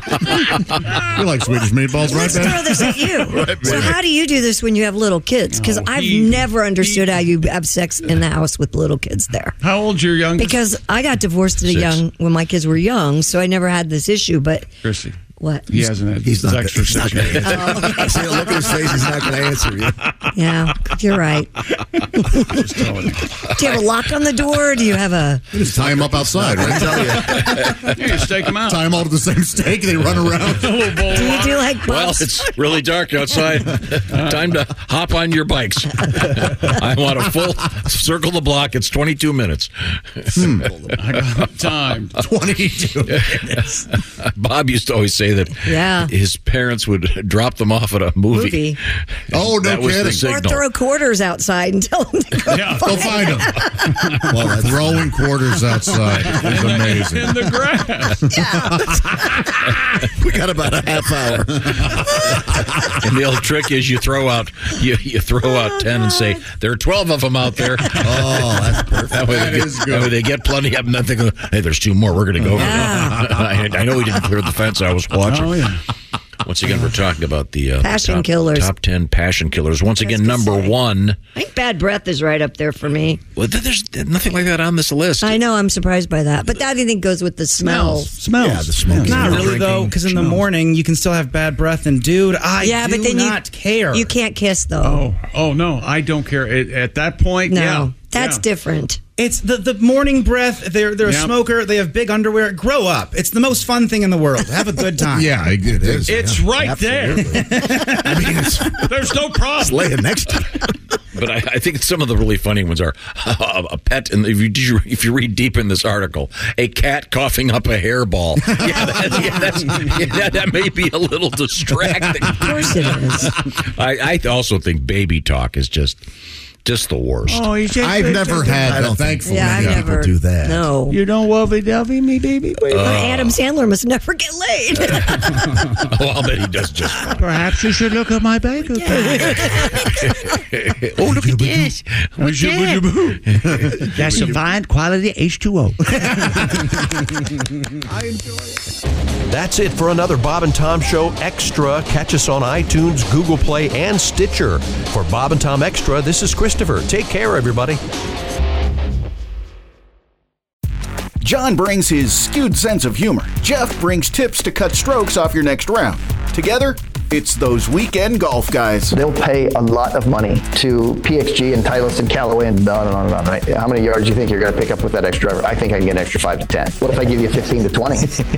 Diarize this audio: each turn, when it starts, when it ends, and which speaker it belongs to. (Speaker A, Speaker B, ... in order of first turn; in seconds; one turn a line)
Speaker A: 1.1-2.9
Speaker B: 2.0-9.6
Speaker C: 3.3-4.0
Speaker A: 3.6-3.9
Speaker D: 5.5-7.2
Speaker D: 9.6-10.7
Speaker B: 10.3-14.7
Speaker E: 11.6-12.0
Speaker D: 14.8-17.8
Speaker B: 15.4-15.7
Speaker C: 16.2-20.0
Speaker B: 17.4-18.3
Speaker B: 20.3-21.5
Speaker B: 22.1-22.6
Speaker D: 22.4-23.2
Speaker B: 23.6-25.5
Speaker A: 25.6-27.7
Speaker C: 25.6-27.8
Speaker D: 27.9-28.9
Speaker A: 28.6-30.9
Speaker D: 30.6-31.8
Speaker B: 31.1-32.5
Speaker E: 31.9-40.5
Speaker D: 34.1-34.5
Speaker A: 40.4-40.7
Speaker D: 41.0-42.2
Speaker A: 42.2-43.6
Speaker E: 43.1-48.8
Speaker B: 45.6-46.1
Speaker B: 48.3-48.8
Speaker A: 49.3-50.2
Speaker E: 49.3-50.7
Speaker B: 50.1-53.9
Speaker D: 52.5-53.2
Speaker A: 52.8-53.5
Speaker C: 54.3-55.1
Speaker A: 54.3-57.4
Speaker D: 56.3-58.2
Speaker B: 58.3-58.9
Speaker C: 60.2-62.0
Speaker E: 63.0-68.2
Speaker B: 65.4-66.4
Speaker C: 68.0-69.3
Speaker A: 68.1-70.2
Speaker E: 69.1-75.8
Speaker B: 72.5-73.4
Speaker D: 75.2-75.8
Speaker E: 76.4-81.2
Speaker B: 77.8-78.8
Speaker B: 80.0-80.8
Speaker B: 81.3-83.2
Speaker E: 83.4-85.4
Speaker B: 85.2-88.2
Speaker D: 87.6-90.5
Speaker C: 88.3-90.1
Speaker F: 89.1-94.1
Speaker B: 92.6-95.1
Speaker D: 94.8-98.4
Speaker B: 97.5-99.0
Speaker F: 99.2-105.4
Speaker D: 101.0-101.4
Speaker A: 105.0-106.3
Speaker C: 105.7-108.9
Speaker D: 106.1-108.3
Speaker D: 108.9-110.1
Speaker C: 109.5-110.7
Speaker E: 111.1-122.6
Speaker B: 118.6-119.5
Speaker B: 122.4-123.4
Speaker E: 123.8-126.0
Speaker E: 126.7-127.5
Speaker D: 127.3-128.8
Speaker A: 127.8-129.9
Speaker C: 128.6-130.7
Speaker B: 129.2-131.0
Speaker D: 130.9-132.6
Speaker B: 132.7-135.3
Speaker E: 132.7-133.4
Speaker E: 135.7-137.3
Speaker D: 137.2-139.7
Speaker B: 138.7-139.9
Speaker E: 140.0-141.8
Speaker D: 141.0-146.0
Speaker E: 143.4-143.8
Speaker A: 143.8-144.2
Speaker A: 145.9-146.6
Speaker A: 147.8-148.6
Speaker G: 149.3-157.8
Speaker H: 161.2-168.9
Speaker I: 168.9-178.1